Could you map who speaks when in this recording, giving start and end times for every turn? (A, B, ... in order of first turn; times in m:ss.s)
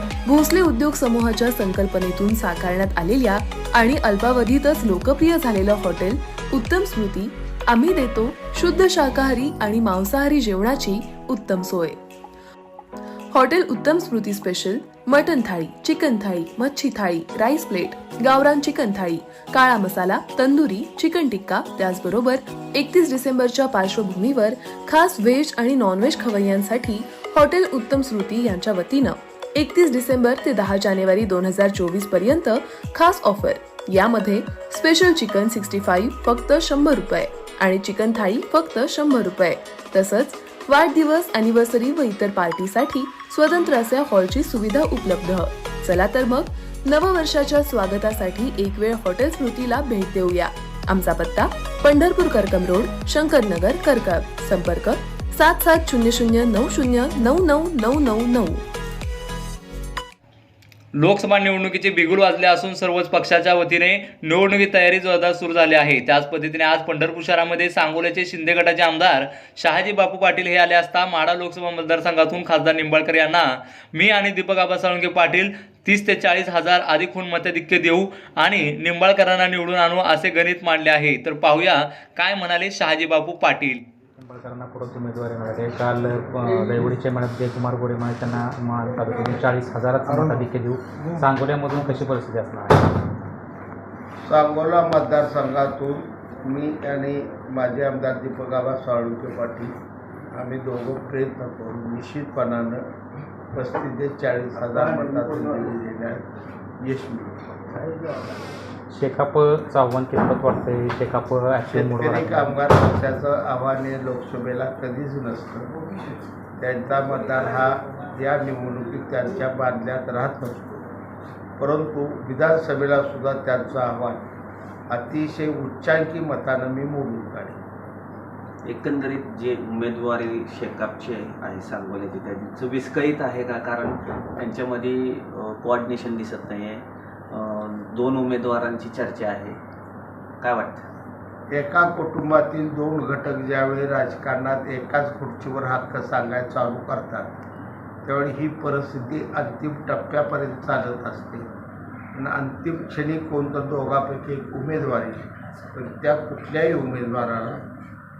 0:00.3-0:12.0 A
0:13.3-0:58.6 A
1:01.0-1:23.8 B
1:24.2-1:32.9 C
1:34.2-1:39.7 D
1:40.3-1:42.8 D
1:43.5-1:46.2 D
1:46.8-1:47.7 D
1:47.7-1:48.0 C
1:48.9-1:52.6 C
1:51.7-1:55.7 D
1:56.6-2:00.9 D
2:01.6-2:04.2 D
2:04.9-2:07.6 D
2:08.6-2:19.6 E
2:20.4-2:20.9 E
2:21.5-2:27.4 D
2:28.0-2:31.4 D
2:32.2-2:37.6 D